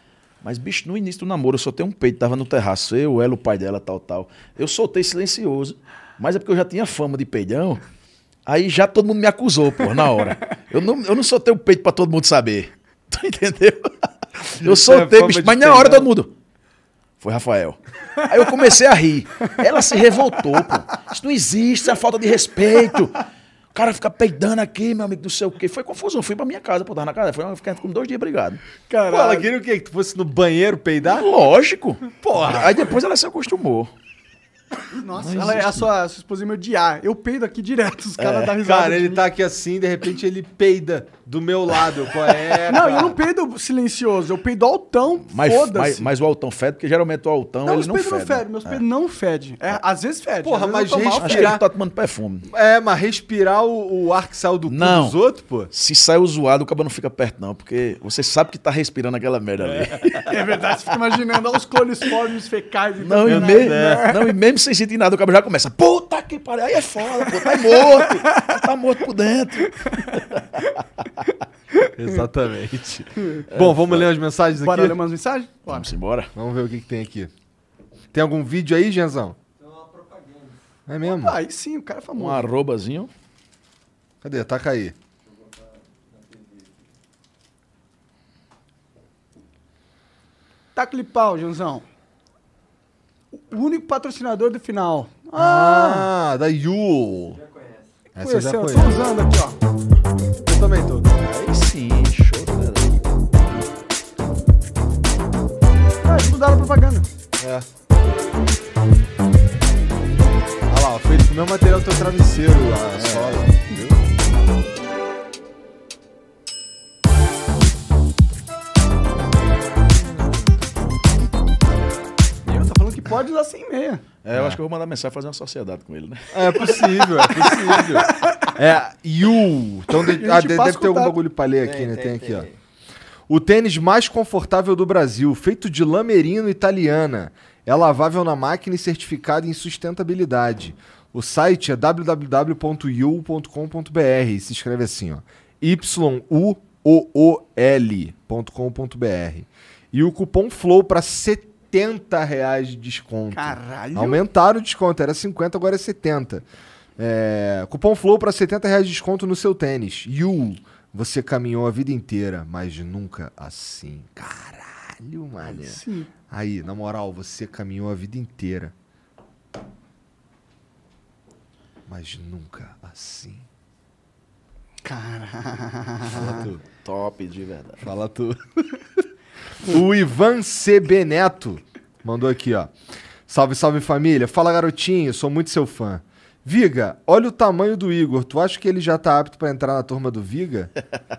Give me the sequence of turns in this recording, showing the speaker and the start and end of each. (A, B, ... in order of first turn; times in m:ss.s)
0:00.4-0:07.8 A
0:08.4-0:16.3 A
0:14.6-0:16.1 B
0:17.2-0:28.6 A
0:28.9-0:29.5 C
0:29.1-0:31.3 B
0:31.0-0:33.9 A
0:32.2-0:33.0 B
0:34.9-0:39.2 C
0:35.1-0:35.9 A
0:38.2-0:38.5 A
0:38.6-0:43.2 B
0:42.6-0:46.1 C
0:45.3-0:48.8 A
0:47.6-0:51.5 C
0:50.4-0:51.6 B
0:51.2-0:52.5 A
0:52.5-0:55.7 B
0:54.7-0:55.2 A
0:55.7-1:00.5 A
0:59.7-1:00.1 B
1:00.2-1:04.3 C
1:03.0-1:10.6 A
1:03.2-1:04.1 B
1:07.2-1:08.5 C
1:09.8-1:10.7 C
1:12.0-1:15.0 B
1:13.2-1:13.5 C
1:13.5-1:14.1 A
1:14.5-1:15.9 C
1:15.7-1:16.3 A
1:16.3-1:17.3 B
1:18.1-1:19.4 B
1:20.9-1:21.4 B
1:21.0-1:22.5 C
1:22.2-1:23.1 A
1:24.2-1:24.9 B
1:30.7-1:31.8 C
1:33.3-1:36.1 C
1:35.3-1:37.4 B
1:38.1-1:39.0 B
1:38.2-1:39.6 C
1:40.4-1:41.1 B
1:41.2-1:43.0 A
1:46.0-1:47.1 C
1:47.4-1:47.7 B
1:50.7-1:53.8 B
1:52.9-1:53.9 A
2:02.4-2:04.0 C
2:04.2-2:06.8 A
2:04.3-2:04.6 B
2:06.3-2:12.5 B
2:06.9-2:08.5 C
2:09.9-2:11.2 C
2:13.3-2:36.4 B
2:33.3-2:34.2 C
2:37.0-2:48.7 B
2:45.4-2:46.1 C
2:51.9-2:53.4 B
2:54.8-2:56.5 C
2:56.1-2:56.6 B
2:56.8-2:57.8 A
2:57.8-2:58.7 B
2:59.6-3:02.7 B
3:03.3-3:10.7 B